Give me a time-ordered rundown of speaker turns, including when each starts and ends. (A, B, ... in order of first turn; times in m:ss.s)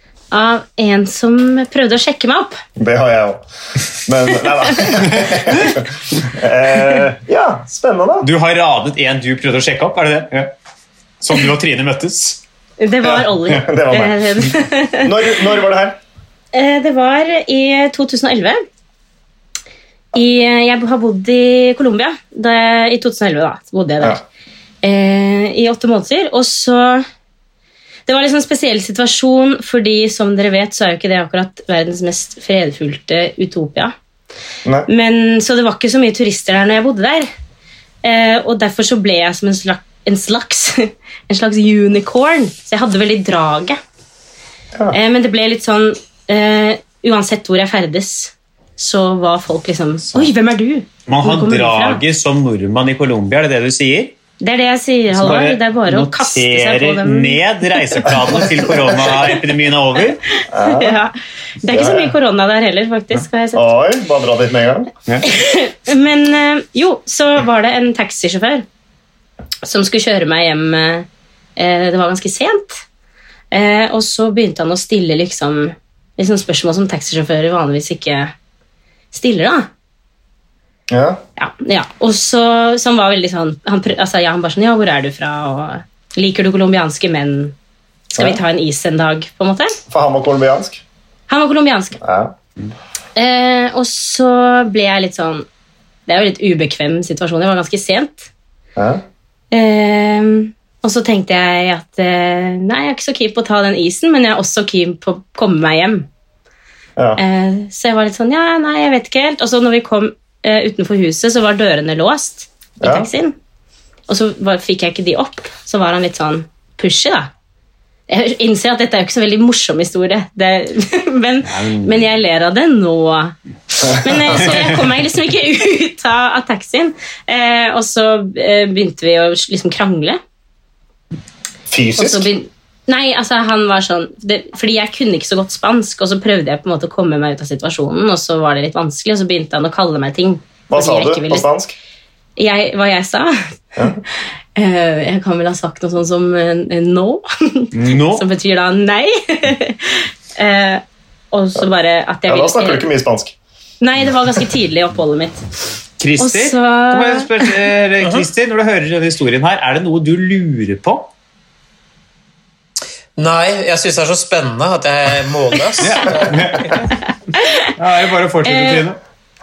0:00.3-0:02.6 A
0:02.8-0:08.3 B
0:08.2-0:10.5 C
0:11.2-0:12.4 C
0:12.8-0:15.4 A
0:13.0-0:16.0 B
0:16.5-0:18.6 A
0:20.1-0:24.2 A
0:24.8-0:27.0 A
0:28.1-0:33.9 A
0:34.9-0:37.3 A
0:38.0-0:43.8 A
0:44.9-0:52.0 A
0:51.1-0:54.2 C
0:54.4-0:58.1 A
0:55.1-1:00.2 C
1:00.4-1:03.7 A
1:00.5-1:01.0 B
1:01.7-1:02.1 B
1:03.5-1:04.9 B
1:05.2-1:08.6 A
1:09.6-1:12.8 A
1:13.5-1:18.3 A
1:19.1-1:19.7 A
1:20.9-1:21.2 B
1:21.4-1:27.6 A
1:28.1-1:29.8 A
1:29.9-1:30.8 B
1:31.3-1:32.0 A
1:32.0-1:32.3 B
1:33.2-1:35.5 A
1:36.1-1:38.3 A
1:38.8-1:39.0 B
1:39.5-1:46.1 A
1:47.2-1:53.4 A
1:52.8-1:53.1 B
1:54.1-1:57.3 A
1:58.1-2:10.2 A
2:01.5-2:02.0 C
2:03.9-2:04.5 B
2:11.7-2:12.3 B
2:12.0-2:21.5 A
2:20.7-2:21.7 B
2:22.4-2:23.5 A
2:24.6-2:32.9 A
2:27.7-2:28.2 C
2:32.3-2:33.4 B
2:33.8-2:35.4 A
2:36.0-2:41.1 C
2:36.2-2:37.3 A
2:43.2-2:46.7 D
2:45.8-2:46.8 C
2:47.4-2:47.7 A
2:47.7-2:49.0 C
2:48.5-2:48.8 A